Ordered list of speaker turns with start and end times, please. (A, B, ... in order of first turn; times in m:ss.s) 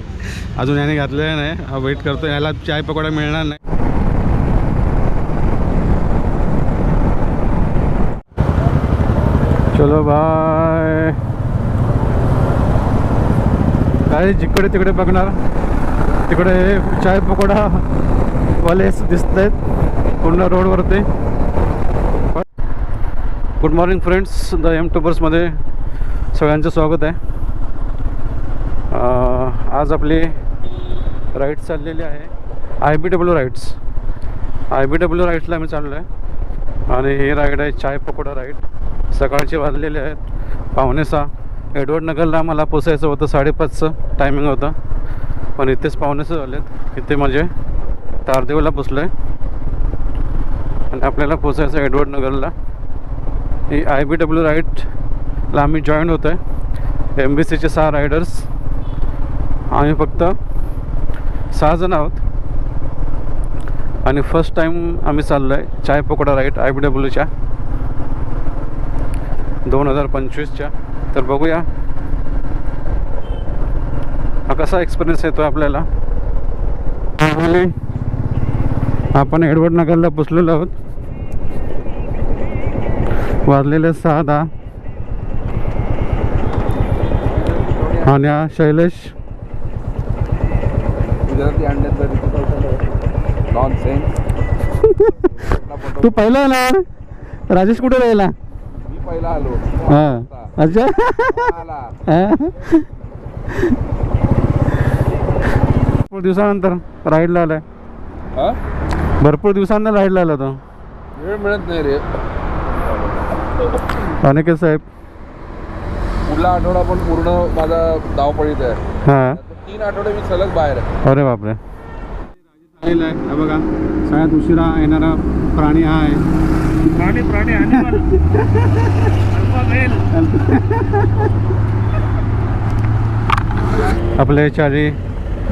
0:00.3-0:03.6 A
0:09.7-0:11.2 A
0:14.1-0:15.4 A
0:16.3-0:17.8 A
0:18.6-0:19.6 A
0:20.2-0:21.0 A
0:23.6-0:25.5 A
0:26.3-0:27.2 A
0:28.9-0:30.3 A
0:31.3-0:32.3 A
0:32.8-0:33.8 A
0:34.7-0:36.0 A
0:36.9-0:38.6 A
0:39.1-0:40.2 A
0:40.7-0:44.7 A
0:45.6-0:47.5 A
0:48.2-0:49.1 A
0:50.9-0:52.5 A
0:53.7-0:54.9 A
0:55.5-0:56.4 A
0:57.2-0:58.4 A
0:59.7-1:00.4 A
1:01.5-1:02.2 A
1:04.0-1:07.3 A
1:09.6-1:11.7 A
1:14.5-1:15.9 A
1:17.2-1:17.7 A
1:19.1-1:20.7 A
1:23.4-1:24.5 A
1:27.3-1:28.1 B
1:28.0-1:29.1 A
1:31.2-1:32.8 B
1:33.5-1:34.1 B
1:34.8-1:35.3 A
1:35.4-1:35.9 B
1:35.9-1:36.8 A
1:37.5-1:38.3 A
1:38.8-1:40.5 B
1:39.9-1:41.5 A
1:41.4-1:41.8 B
1:42.1-1:42.9 A
1:46.0-1:47.6 A
1:49.2-1:50.6 A
1:51.2-1:52.0 B
1:54.0-1:54.8 A
1:56.2-1:58.8 B
1:59.0-1:59.4 A
1:59.4-2:00.9 B
2:01.0-2:01.6 A
2:02.7-2:06.2 A
2:06.9-2:08.2 C
2:07.7-2:09.1 A
2:09.3-2:10.1 C
2:10.1-2:11.1 A
2:14.2-2:15.0 A